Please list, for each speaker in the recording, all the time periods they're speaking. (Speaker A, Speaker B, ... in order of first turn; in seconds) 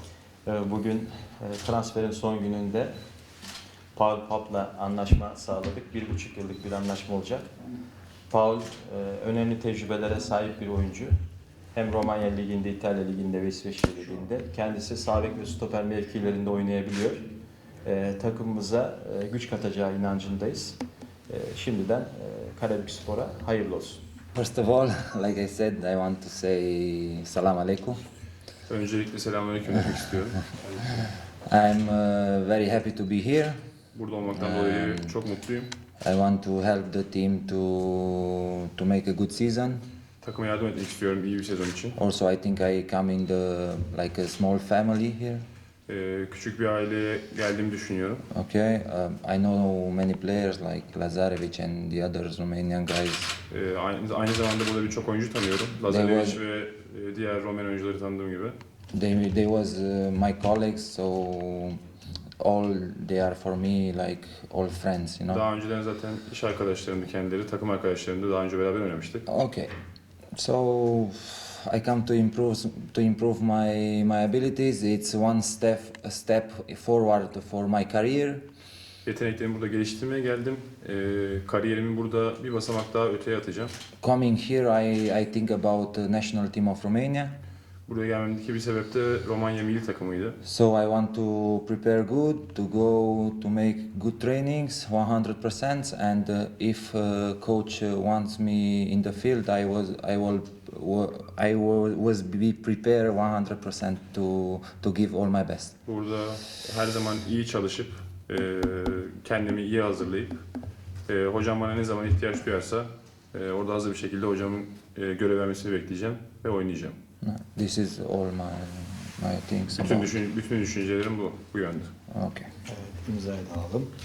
Speaker A: 0.5-2.9, 4.0-7.5, 8.3-11.2, 11.7-17.3, 17.8-24.0, 122.7-123.9
Speaker B: 24.4-28.0, 31.4-33.6, 34.3-35.2, 36.0-39.8, 42.0-45.5, 48.3-53.4, 55.8-56.4, 58.9-61.8, 62.4-65.5, 69.3-69.7, 70.3-78.5, 84.0-87.3, 90.4-105.8, 117.2-120.1, 122.1-122.5
Speaker C: 28.7-30.9, 33.9-35.7, 40.2-42.0, 45.9-48.2, 53.5-58.6, 65.3-69.2, 79.0-83.7, 87.9-90.4, 105.9-110.4, 111.1-117.0, 119.8-121.9